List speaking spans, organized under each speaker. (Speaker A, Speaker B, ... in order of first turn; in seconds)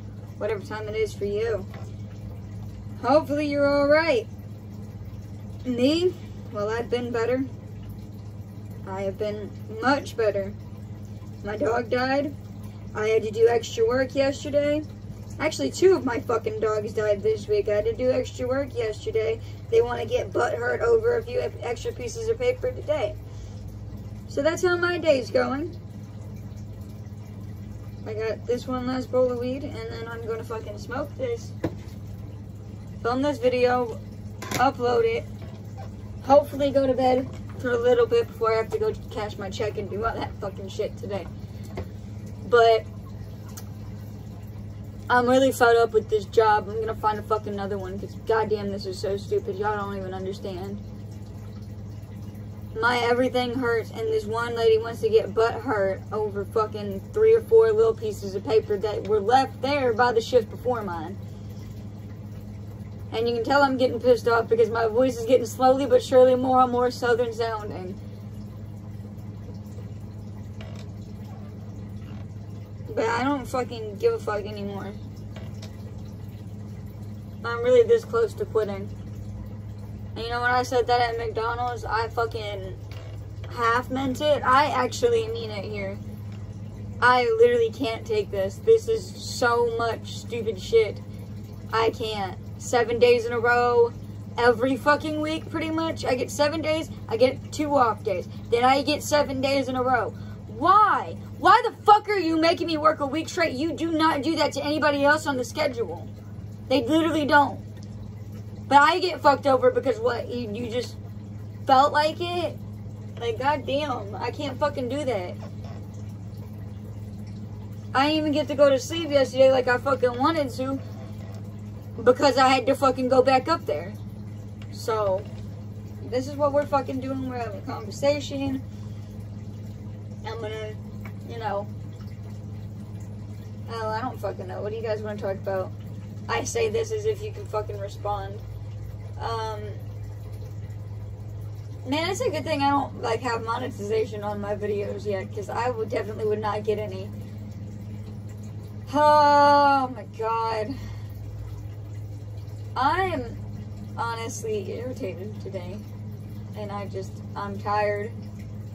Speaker A: 0.4-1.7, 3.0-4.3, 5.6-7.5, 8.8-10.6, 11.4-12.3, 12.9-14.9, 15.4-23.2, 24.3-25.8, 28.0-31.5, 33.0-34.0, 34.6-35.3, 36.2-41.3, 42.4-42.9, 45.1-50.8, 52.7-61.2, 63.1-68.0, 72.9-75.0, 77.4-78.9, 80.1-82.8, 83.5-86.0, 87.0-91.0, 91.7-106.1, 106.7-107.6, 108.7-111.0, 111.7-112.6, 113.2-115.4, 117.9-120.8, 122.0-124.0, 124.7-125.3, 126.0-128.6, 130.2-131.7, 133.7-135.7, 136.3-138.4, 139.2-139.8, 141.8-147.1, 148.9-150.8, 152.7-153.4, 153.9-155.8, 156.5-158.2